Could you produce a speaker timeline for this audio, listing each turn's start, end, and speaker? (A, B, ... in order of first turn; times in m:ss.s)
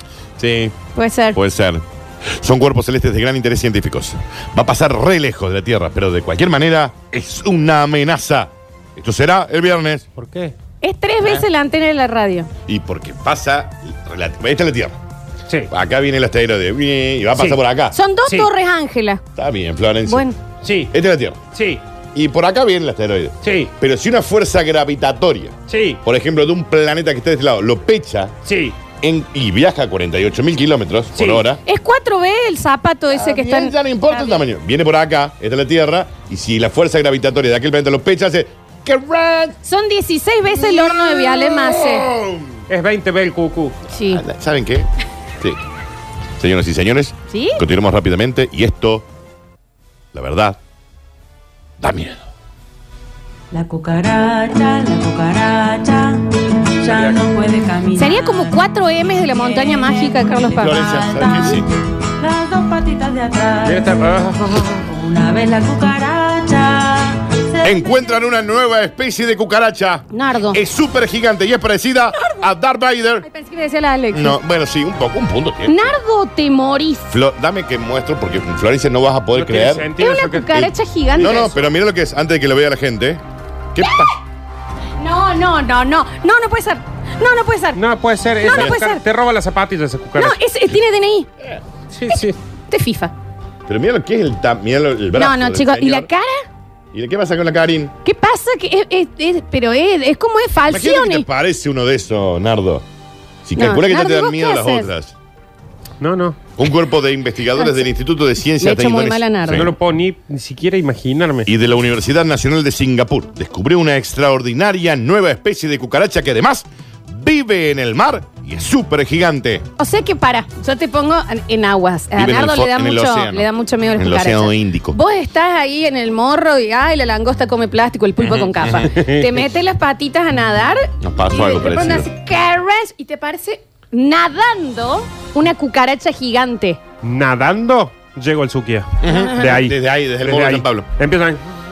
0:00.4-0:00.8 A
0:01.0-0:01.4 B
0:01.4-0:10.1 A
0:10.2-0:10.5 C
0:10.8-0:12.5 B
0:12.7-0:15.0 A
0:15.7-0:18.0 A
0:17.9-0:19.2 B
0:19.4-0:20.2 A
0:20.1-0:20.4 B
0:20.6-0:20.9 C
0:20.9-0:21.4 A
0:21.5-0:21.8 C
0:22.1-0:28.4 A
0:23.4-0:23.7 C
0:25.7-0:26.0 C
0:28.4-0:28.8 C
0:29.0-0:31.6 A
0:31.2-0:31.5 C
0:31.6-0:34.4 B
0:33.1-0:39.6 A
0:39.6-0:42.1 B
0:40.6-0:42.6 A
0:42.7-0:43.8 C
0:43.9-0:44.2 B
0:44.1-0:44.9 A
0:46.4-0:49.1 A
0:47.3-0:47.6 B
0:50.1-0:50.6 A
0:51.8-0:52.3 A
0:53.5-1:04.0 D
0:56.8-0:57.2 C
0:58.0-1:00.8 B
1:00.6-1:01.7 A
1:03.6-1:04.8 C
1:04.6-1:07.8 D
1:07.6-1:13.2 A
1:10.1-1:10.6 B
1:12.1-1:12.5 B
1:13.2-1:14.4 B
1:14.1-1:16.0 A
1:15.7-1:17.2 B
1:17.1-1:20.0 A
1:19.3-1:20.6 C
1:20.0-1:21.7 B
1:20.5-1:23.2 A
1:23.7-1:24.1 A
1:23.8-1:24.1 B
1:25.0-1:27.8 B
1:27.8-1:30.4 C
1:28.4-1:29.0 B
1:28.5-1:28.8 A
1:30.2-1:31.3 B
1:31.9-1:32.4 C
1:32.1-1:33.1 B
1:33.7-1:36.1 A
1:35.2-1:36.5 B
1:36.9-1:37.9 A
1:38.0-1:41.2 B
1:40.7-1:42.8 A
1:43.4-1:45.1 A
1:43.6-1:44.9 B
1:46.0-1:46.4 C
1:46.6-1:49.7 A
1:47.6-1:47.8 B
1:48.6-1:49.7 B
1:49.5-1:51.5 C
1:51.5-1:59.7 A
1:59.8-2:16.8 B
2:02.2-2:05.0 A
2:08.2-2:08.9 A
2:08.9-2:09.3 C
2:11.0-2:12.1 A
2:17.0-2:21.4 C
2:19.0-2:20.9 A
2:19.1-2:19.6 B